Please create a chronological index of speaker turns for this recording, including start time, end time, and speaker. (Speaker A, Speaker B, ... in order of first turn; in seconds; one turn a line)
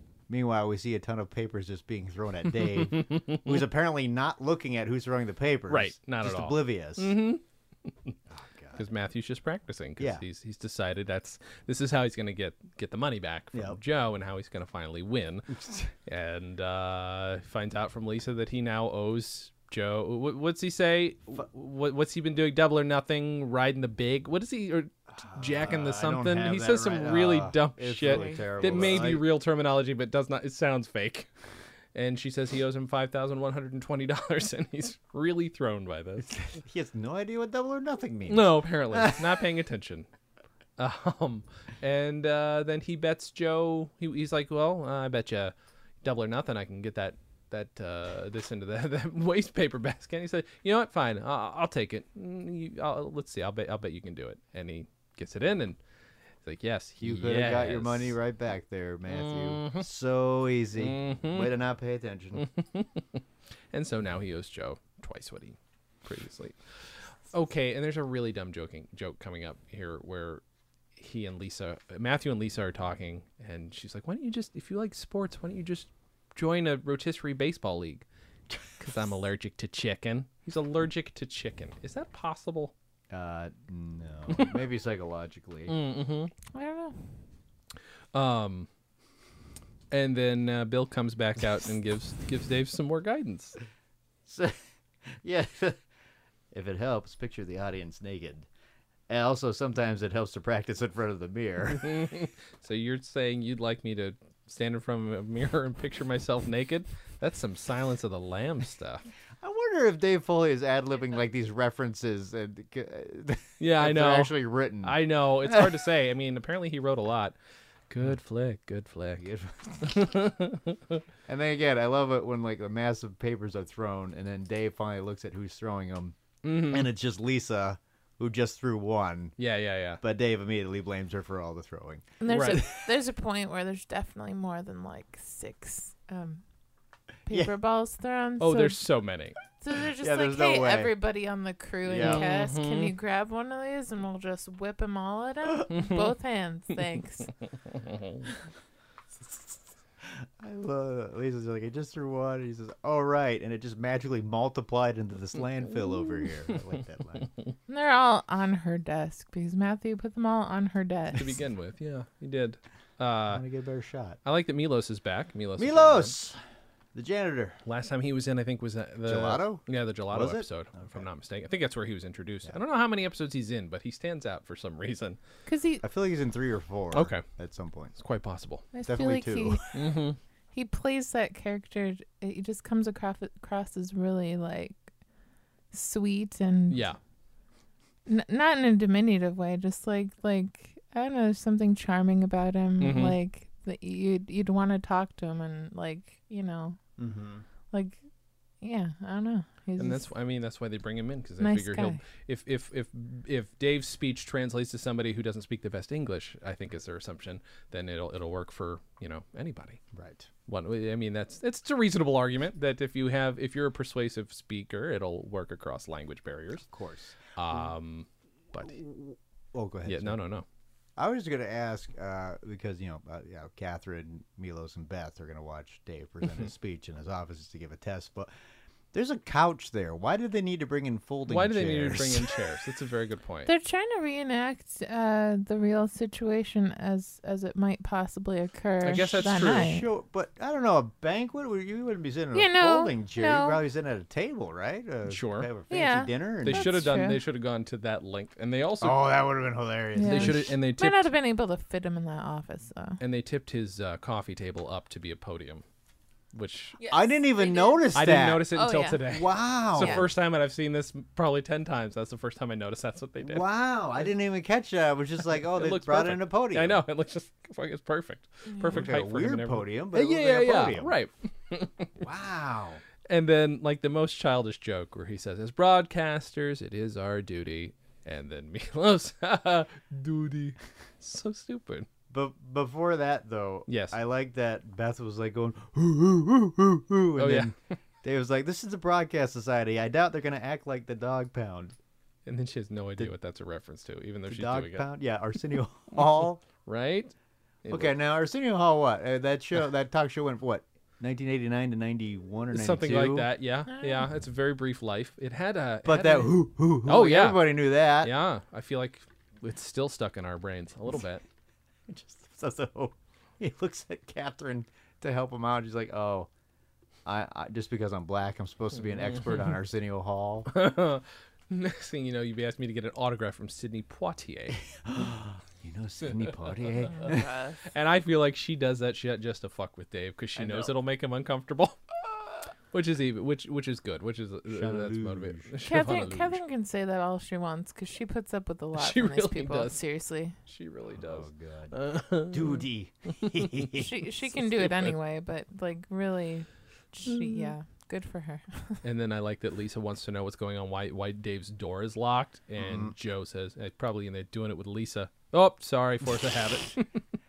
Speaker A: 0.3-7.1
Speaker B: 2.7-3.5
Speaker B: 5.7-8.1
Speaker A: 8.3-8.8
Speaker B: 8.7-31.3
Speaker A: 13.5-13.8
Speaker A: 15.6-15.8
Speaker A: 25.3-29.2
Speaker C: 28.1-28.6
Speaker B: 31.9-36.4
Speaker A: 36.2-39.4
Speaker B: 38.3-40.1
Speaker B: 40.8-55.8
Speaker B: 56.4-58.1
Speaker A: 57.0-62.5
Speaker B: 59.1-59.9
Speaker B: 60.8-61.5
Speaker B: 62.3-70.4
Speaker B: 71.0-78.0
Speaker B: 78.7-82.7
Speaker A: 83.1-85.7
Speaker B: 84.3-84.6
Speaker B: 85.7-86.3
Speaker C: 86.5-87.0
Speaker B: 88.1-88.7
Speaker B: 89.9-93.6
Speaker A: 94.2-95.8
Speaker A: 96.5-98.5
Speaker A: 99.1-102.1
Speaker B: 101.7-109.0
Speaker A: 109.4-115.8
Speaker B: 113.6-117.3
Speaker B: 117.9-119.3
Speaker A: 119.2-120.0
Speaker B: 119.8-121.0
Speaker A: 121.3-129.3
Speaker B: 126.4-126.9
Speaker B: 129.4-130.0
Speaker A: 130.0-132.9
Speaker C: 132.2-136.4
Speaker B: 132.3-132.6
Speaker C: 137.2-138.8
Speaker A: 137.3-137.5
Speaker B: 138.4-139.4
Speaker C: 139.6-147.3
Speaker A: 140.0-140.9
Speaker A: 141.8-142.3
Speaker B: 141.9-142.9
Speaker B: 145.7-146.1
Speaker B: 147.7-148.3
Speaker A: 149.1-157.3
Speaker B: 157.2-157.5
Speaker C: 157.7-161.4
Speaker B: 161.1-163.4
Speaker A: 163.3-164.2
Speaker B: 164.2-166.1
Speaker A: 165.6-166.4
Speaker A: 166.9-167.6
Speaker B: 167.7-175.2
Speaker A: 169.0-171.1
Speaker C: 175.5-175.8
Speaker A: 175.8-177.9
Speaker B: 176.9-177.2
Speaker B: 178.0-178.7
Speaker C: 178.7-179.8
Speaker A: 178.8-179.8
Speaker B: 179.7-180.2
Speaker C: 180.5-184.8
Speaker C: 185.7-186.9
Speaker B: 186.7-187.0
Speaker C: 188.1-196.8
Speaker B: 192.8-193.2
Speaker A: 197.0-197.4
Speaker C: 197.7-198.0
Speaker C: 198.6-200.0
Speaker B: 199.8-209.8
Speaker C: 201.4-202.0
Speaker A: 209.9-210.3
Speaker B: 210.5-216.7
Speaker A: 216.7-217.2
Speaker B: 217.3-218.8
Speaker A: 218.6-220.2
Speaker B: 219.8-220.4
Speaker A: 221.0-228.3
Speaker A: 228.9-232.4
Speaker B: 231.3-233.5
Speaker C: 233.5-239.8
Speaker B: 238.8-239.7
Speaker A: 239.1-246.7
Speaker C: 242.3-243.6
Speaker B: 245.1-245.5
Speaker C: 245.7-247.2
Speaker B: 246.4-249.1
Speaker A: 248.8-250.6
Speaker C: 249.9-253.0
Speaker B: 250.0-251.1
Speaker B: 253.0-255.6
Speaker B: 256.3-256.8
Speaker C: 256.8-257.9
Speaker A: 256.9-258.5
Speaker B: 257.9-263.4
Speaker C: 258.5-259.0
Speaker A: 259.1-260.1
Speaker C: 259.8-260.0
Speaker A: 263.2-266.8
Speaker B: 265.4-271.9
Speaker C: 268.5-268.8
Speaker A: 268.7-270.9
Speaker A: 272.0-272.8
Speaker B: 273.1-281.9
Speaker A: 282.1-291.7
Speaker B: 283.7-284.0
Speaker B: 287.2-287.5
Speaker B: 292.2-294.9
Speaker A: 294.3-296.4
Speaker B: 296.6-297.1
Speaker B: 297.6-297.9
Speaker A: 297.7-303.3
Speaker B: 302.5-311.2
Speaker C: 303.7-304.1
Speaker A: 305.8-308.1
Speaker A: 311.9-316.3
Speaker A: 317.1-320.5
Speaker B: 319.1-319.5
Speaker B: 320.5-324.6
Speaker A: 324.7-327.3
Speaker C: 326.9-327.6
Speaker B: 327.6-336.4
Speaker A: 330.4-330.7
Speaker A: 334.5-335.5
Speaker C: 335.6-340.4
Speaker B: 338.8-339.8
Speaker B: 340.4-343.7
Speaker A: 340.9-343.9
Speaker C: 343.7-348.8
Speaker B: 344.3-344.9
Speaker B: 347.1-347.5
Speaker B: 348.8-357.0
Speaker A: 352.6-352.9